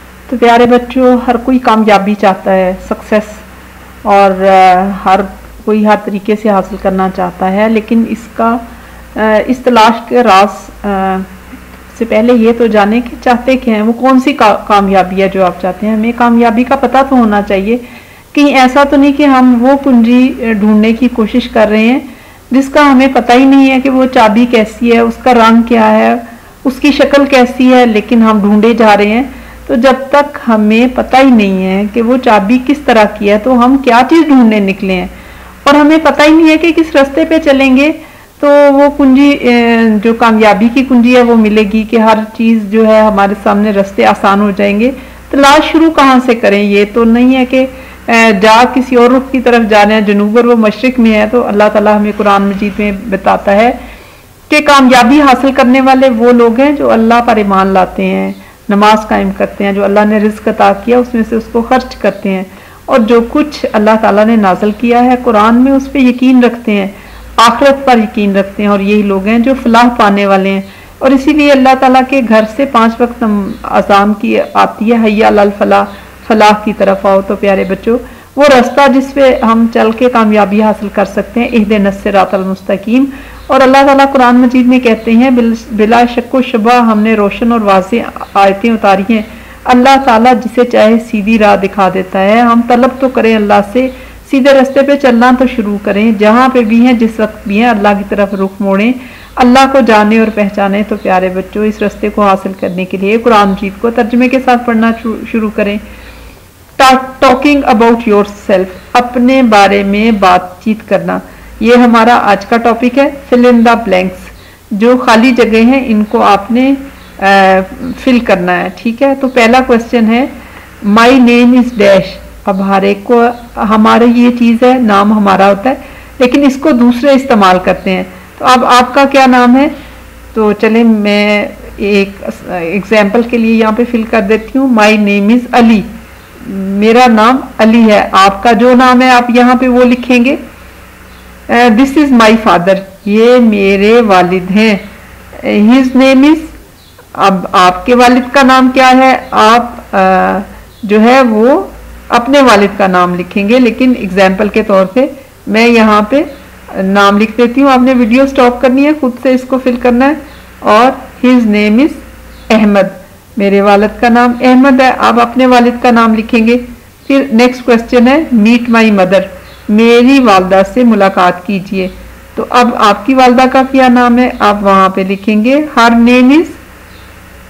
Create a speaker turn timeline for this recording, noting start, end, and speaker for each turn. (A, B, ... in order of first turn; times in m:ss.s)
0:00.3-0:03.4 A
0:04.1-0:08.6 A
0:09.2-0:11.3 A
0:11.9-0:35.1 A
0:35.6-0:53.8 A
0:54.5-1:45.8 A
1:46.8-2:00.3 A
2:00.8-2:09.7 A
2:10.3-2:15.9 A
2:16.4-2:20.4 A
2:21.5-2:24.8 A
2:25.4-2:26.6 A
2:27.2-2:56.6 A